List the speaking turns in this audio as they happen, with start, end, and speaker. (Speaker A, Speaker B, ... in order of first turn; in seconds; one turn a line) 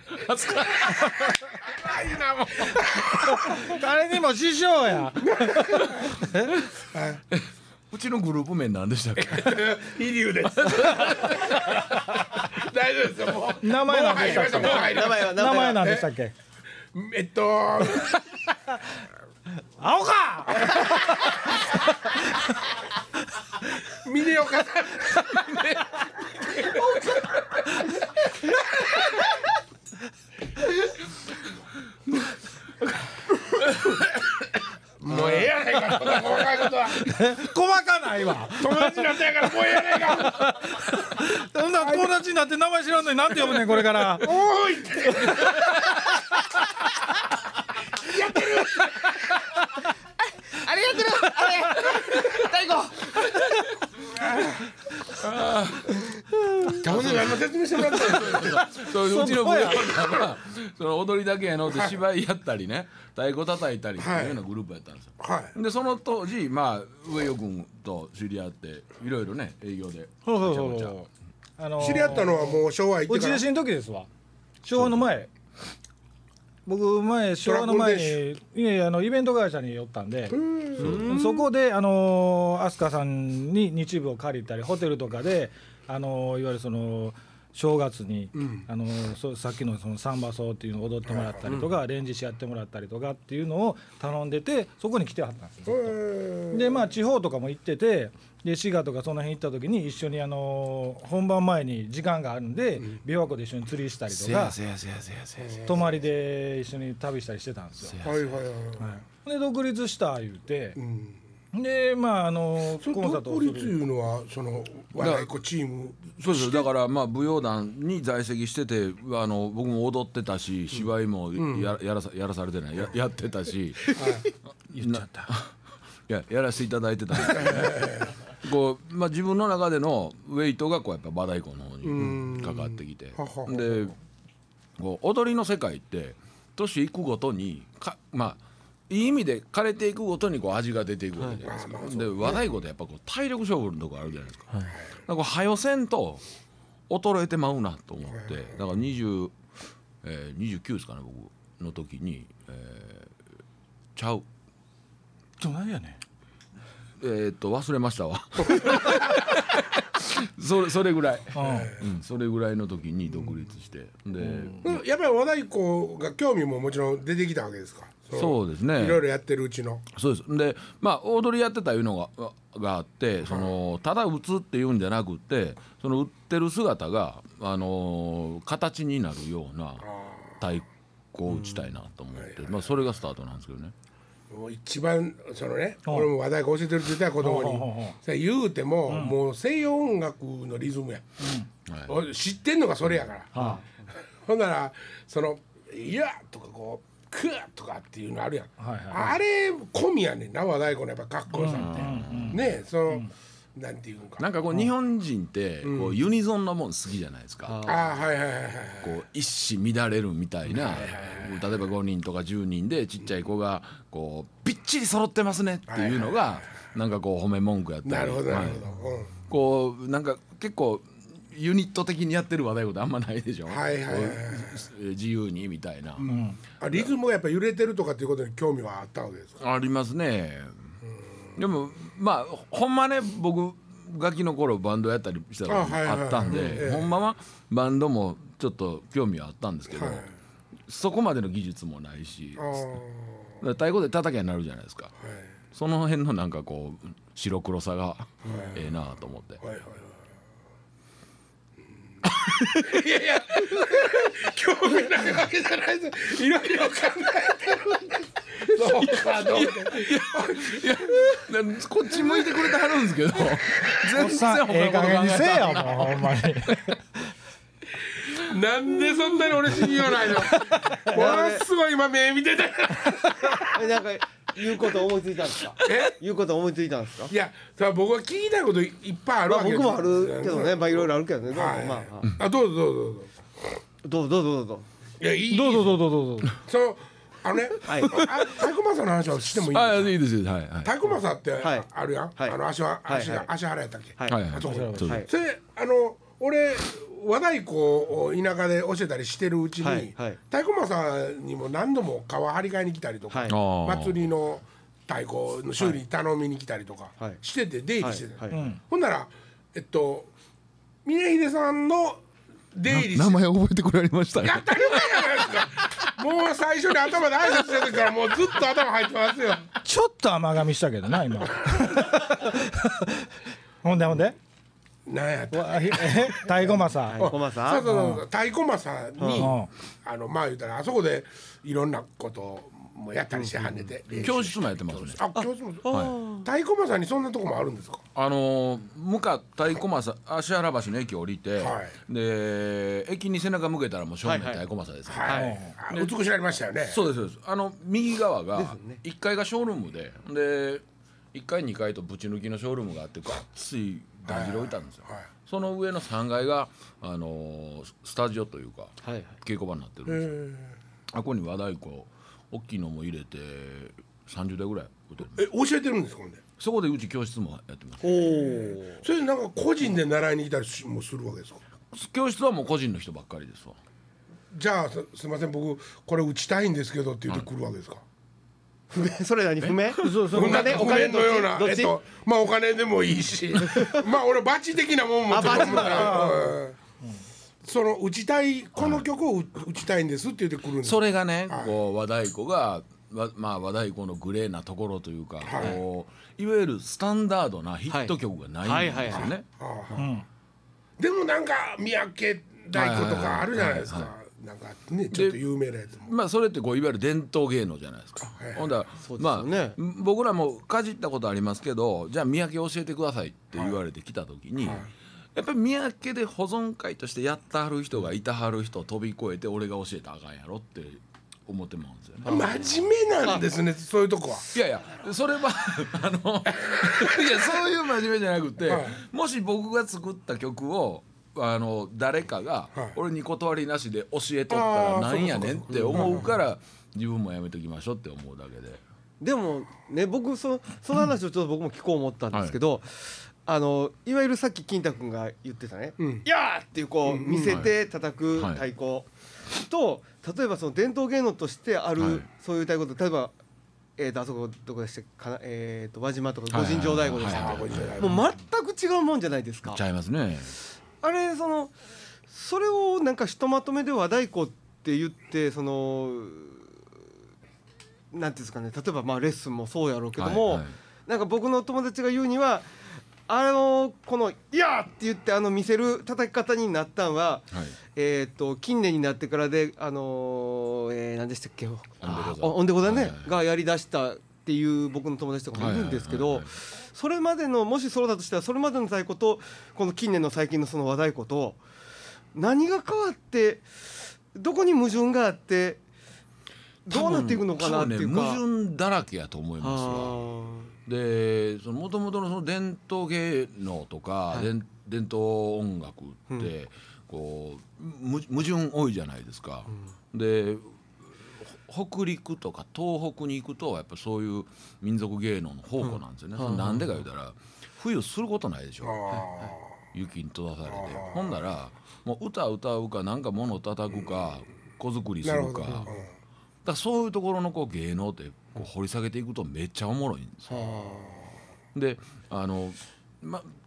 Speaker A: 0.1-1.5
Speaker B: 1.6-3.7
Speaker C: 3.4-6.5
Speaker B: 5.2-6.2
Speaker B: 6.8-7.2
Speaker A: 7.3-9.7
Speaker B: 9.2-16.1
Speaker A: 10.6-11.8
Speaker C: 13.6-16.3
Speaker D: 14.2-15.9
Speaker B: 16.9-18.2
Speaker C: 19.8-21.4
Speaker B: 20.7-21.3
Speaker B: 23.8-27.2
Speaker A: 25.3-26.0
Speaker B: 35.0-37.0
Speaker C: 37.0-39.2
Speaker B: 38.6-40.5
Speaker C: 40.2-44.4
Speaker B: 41.8-42.1
Speaker B: 44.1-45.8
Speaker B: 48.0-49.4
Speaker D: 50.5-53.7
Speaker B: 54.1-54.6
Speaker A: 55.1-56.1
Speaker D: 56.3-56.9
Speaker A: 56.7-71.0
Speaker B: 56.7-58.7
Speaker C: 59.1-59.8
Speaker D: 59.2-60.2
Speaker B: 61.7-62.0
Speaker B: 64.0-64.4
Speaker B: 65.2-65.5
Speaker C: 70.3-71.1
Speaker C: 71.6-74.1
Speaker B: 71.8-73.5
Speaker C: 74.6-75.3
Speaker C: 76.7-80.4
Speaker B: 77.5-78.2
Speaker B: 80.3-81.1
Speaker A: 80.8-81.1
Speaker D: 80.8-81.5
Speaker C: 81.0-96.0
Speaker B: 88.4-88.7
Speaker B: 91.1-91.5
Speaker B: 95.7-96.8
Speaker C: 96.5-104.6
Speaker A: 104.1-105.7
Speaker B: 105.4-106.0
Speaker C: 105.7-108.0
Speaker A: 107.8-108.4
Speaker B: 108.0-109.0
Speaker C: 108.8-110.8
Speaker B: 110.8-111.2
Speaker C: 111.5-113.7
Speaker B: 112.8-116.7
Speaker A: 115.0-115.3
Speaker A: 116.2-124.0
Speaker B: 121.4-121.7
Speaker B: 123.9-124.3
Speaker A: 124.7-125.5
Speaker C: 124.7-125.3
Speaker A: 126.1-133.9
Speaker B: 127.4-128.1
Speaker B: 131.8-133.9
Speaker A: 134.8-146.2
Speaker B: 141.4-142.4
Speaker A: 146.9-149.4
Speaker A: 150.0-153.1
Speaker A: 154.0-154.3
Speaker C: 155.4-156.0
Speaker A: 157.0-164.8
Speaker C: 161.3-161.8
Speaker B: 161.4-161.8
Speaker B: 164.6-169.9
Speaker A: 168.1-169.1
Speaker A: 169.9-183.7
Speaker B: 173.3-173.5
Speaker B: 179.8-180.4
Speaker D: 181.3-181.6
Speaker B: 182.2-182.7
Speaker B: 184.3-191.3
Speaker C: 187.2-188.0
Speaker C: 188.9-189.2
Speaker C: 191.2-191.5
Speaker A: 191.7-192.0
Speaker B: 191.9-204.3
Speaker C: 193.3-193.6
Speaker C: 198.6-199.1
Speaker C: 201.3-202.4
Speaker A: 201.5-202.4
Speaker A: 204.2-207.7
Speaker B: 205.6-206.0
Speaker D: 207.5-207.9
Speaker B: 207.7-209.0
Speaker A: 208.8-218.7
Speaker B: 210.5-211.4
Speaker B: 215.7-216.3
Speaker B: 217.8-219.2
Speaker A: 219.3-226.0
Speaker B: 223.5-224.6
Speaker B: 226.0-229.4
Speaker C: 226.1-226.4
Speaker A: 229.4-230.7
Speaker A: 231.4-240.1
Speaker B: 235.5-236.9
Speaker B: 239.7-240.1
Speaker A: 240.7-242.6
Speaker B: 242.4-243.3
Speaker A: 243.4-244.9
Speaker B: 245.0-245.3
Speaker A: 245.5-249.4
Speaker D: 248.2-248.6
Speaker B: 248.3-248.7
Speaker B: 249.4-250.0
Speaker A: 252.1-253.8
Speaker B: 252.5-260.9
Speaker A: 258.6-266.6
Speaker B: 261.9-262.6
Speaker C: 263.9-266.8
Speaker B: 268.1-273.7
Speaker C: 270.4-270.9
Speaker D: 270.9-271.4
Speaker D: 273.5-277.1
Speaker B: 275.6-276.0
Speaker B: 277.1-283.1
Speaker D: 279.3-282.1
Speaker D: 283.8-284.7
Speaker B: 285.0-290.0
Speaker C: 285.3-286.3
Speaker D: 287.6-288.1
Speaker A: 289.4-290.8
Speaker B: 290.6-310.1
Speaker D: 291.4-293.3
Speaker D: 294.0-295.1
Speaker A: 294.1-295.1
Speaker C: 294.4-294.8
Speaker D: 299.6-300.2
Speaker D: 303.1-303.4
Speaker A: 303.3-304.0
Speaker D: 307.8-308.4
Speaker C: 308.3-308.6
Speaker B: 310.9-313.2
Speaker A: 312.7-315.9
Speaker B: 314.2-319.5
Speaker C: 319.6-323.1
Speaker B: 321.4-321.7
Speaker C: 323.6-324.2
Speaker B: 324.9-337.8
Speaker C: 325.3-327.1
Speaker D: 326.8-327.7
Speaker C: 327.6-328.0
Speaker D: 329.0-329.3
Speaker C: 329.1-329.5
Speaker D: 333.1-334.1
Speaker A: 334.0-335.0
Speaker D: 335.1-336.3
Speaker A: 335.7-336.0
Speaker A: 337.9-345.9
Speaker B: 341.4-341.8
Speaker D: 344.0-344.4
Speaker B: 344.9-346.8
Speaker D: 345.0-345.4
Speaker C: 345.2-345.6
Speaker A: 346.7-360.1
Speaker D: 348.4-348.8
Speaker B: 354.1-355.1
Speaker D: 358.8-359.1
Speaker B: 359.9-360.5
Speaker A: 360.9-365.2
Speaker B: 365.1-366.2
Speaker A: 366.4-368.1
Speaker D: 367.8-368.8
Speaker B: 368.8-371.4
Speaker A: 371.7-373.6
Speaker B: 374.3-377.8
Speaker D: 378.7-381.8
Speaker A: 379.4-379.8
Speaker C: 379.8-380.7
Speaker B: 380.1-386.6
Speaker D: 383.4-383.8
Speaker D: 385.1-386.3
Speaker C: 385.7-386.3
Speaker B: 387.4-391.5
Speaker A: 388.6-388.9
Speaker A: 390.6-399.2
Speaker B: 395.2-395.6
Speaker D: 397.7-399.1
Speaker B: 399.4-399.9
Speaker C: 399.8-400.1
Speaker B: 400.8-405.9
Speaker A: 402.5-403.9
Speaker A: 404.9-405.2
Speaker A: 405.8-422.5
Speaker B: 408.1-408.5
Speaker D: 408.8-409.6
Speaker B: 414.4-414.7
Speaker D: 422.0-422.4
Speaker B: 422.1-424.3
Speaker A: 424.3-438.6
Speaker B: 426.4-427.2
Speaker B: 428.4-428.8
Speaker B: 434.3-436.1
Speaker D: 435.5-436.1
Speaker D: 439.0-453.1
Speaker A: 442.1-442.4
Speaker B: 445.8-446.1
Speaker B: 446.9-447.4
Speaker A: 447.2-447.6
Speaker A: 448.1-448.4
Speaker A: 451.8-452.1
Speaker D: 453.8-459.6
Speaker A: 456.3-458.0
Speaker B: 457.0-458.0
Speaker A: 459.5-460.4
Speaker D: 460.8-461.6
Speaker D: 462.1-466.6
Speaker D: 467.9-491.4
Speaker A: 470.0-470.5
Speaker A: 477.3-477.6
Speaker A: 481.8-483.2
Speaker A: 485.4-486.3
Speaker D: 492.1-495.6
Speaker D: 496.7-498.2
Speaker A: 496.7-500.0
Speaker D: 499.4-500.5
Speaker A: 500.7-519.0
Speaker D: 515.6-516.8
Speaker B: 518.6-519.5
Speaker D: 518.9-519.3
Speaker A: 519.7-525.7
Speaker B: 520.5-521.2
Speaker B: 525.0-525.9
Speaker A: 526.5-530.6
Speaker D: 530.3-531.1
Speaker A: 531.5-533.3